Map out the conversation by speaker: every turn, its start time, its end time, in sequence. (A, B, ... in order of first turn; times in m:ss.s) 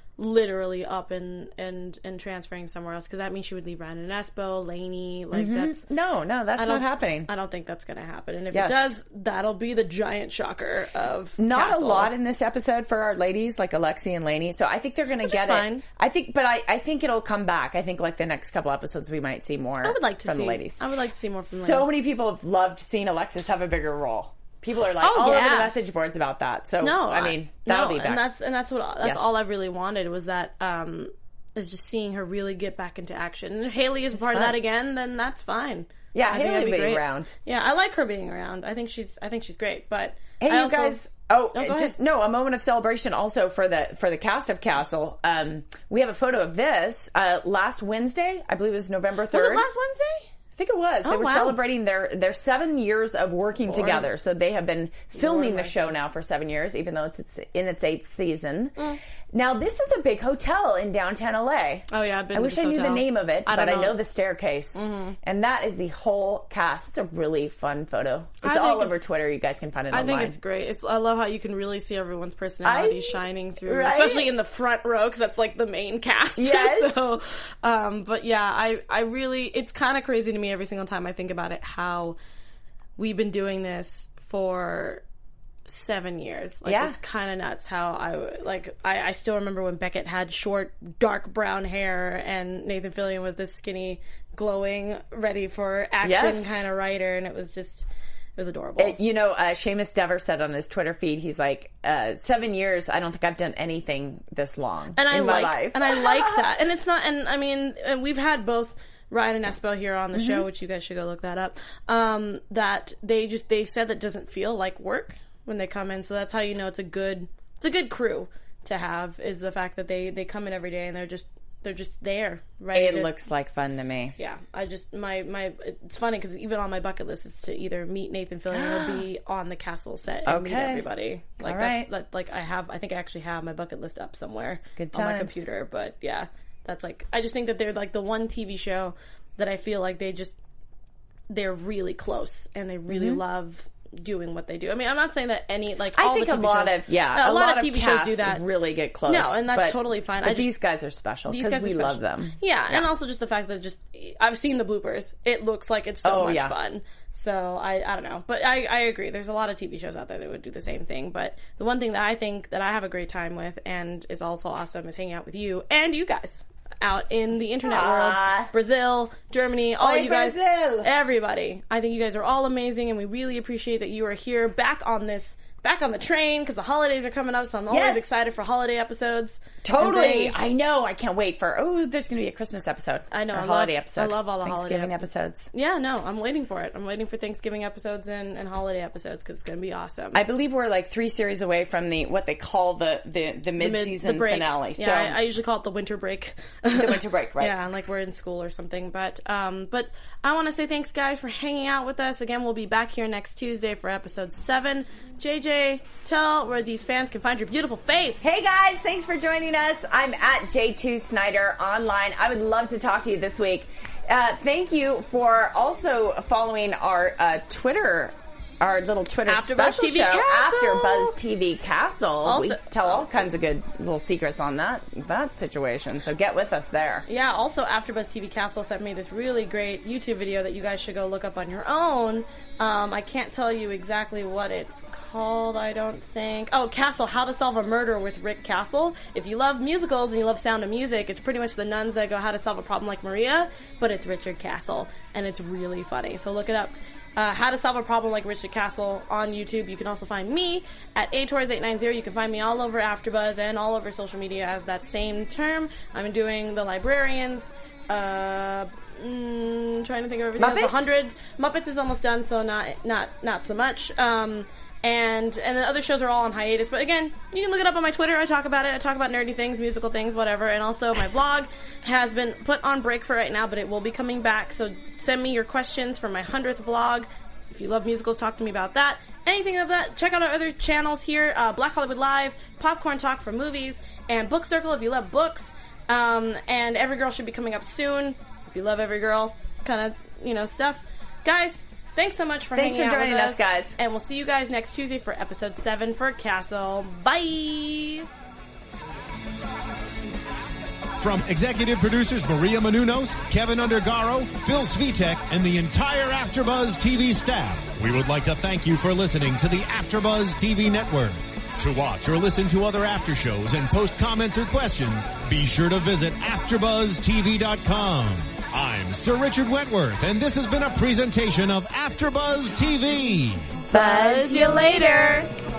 0:00.2-0:05.8 A
0:05.3-0:07.3 B
0:06.6-0:12.1 A
0:08.5-0:08.9 B
0:11.4-0:20.8 B
0:15.2-0:15.8 A
0:19.8-0:21.9 A
0:21.4-0:28.3 B
0:25.0-0:25.8 A
0:26.8-0:41.0 A
0:29.0-0:29.3 B
0:34.2-0:34.6 B
0:36.1-0:37.4 B
0:40.4-0:49.7 B
0:41.5-0:41.9 A
0:49.3-0:50.3 A
0:50.6-1:10.4 B
0:51.0-0:51.6 A
0:53.7-0:54.1 A
0:55.1-0:55.9 A
1:01.9-1:04.0 A
1:04.8-1:05.2 A
1:08.4-1:09.0 A
1:09.9-1:22.2 A
1:12.6-1:14.3 B
1:16.4-1:17.0 B
1:23.0-1:25.0 A
1:25.7-1:39.0 A
1:26.7-1:27.0 B
1:36.0-1:36.6 B
1:38.8-1:46.4 B
1:45.0-2:03.1 A
1:50.1-1:50.4 B
2:02.7-2:04.2 B
2:04.2-2:20.4 A
2:08.5-2:09.0 B
2:10.2-2:10.9 B
2:11.4-2:11.9 B
2:14.8-2:15.4 B
2:21.3-2:28.4 A
2:22.9-2:23.2 B
2:26.0-2:32.9 B
2:29.1-2:30.5 A
2:31.3-3:00.5 A
2:36.0-2:36.6 B
2:47.6-2:48.5 B
2:49.8-2:50.9 B
2:57.7-2:58.1 B
2:59.6-3:05.5 B
3:03.1-3:10.2 A
3:10.1-3:15.2 B
3:13.6-3:28.3 A
3:16.7-3:17.5 B
3:28.2-3:47.0 B
3:39.3-3:41.2 A
3:42.2-3:43.2 A
3:47.1-4:58.1 A
4:20.4-4:20.9 B
4:52.6-4:53.8 B
5:01.0-5:23.5 C
5:23.7-5:25.2 A
5:23.7-5:25.3 B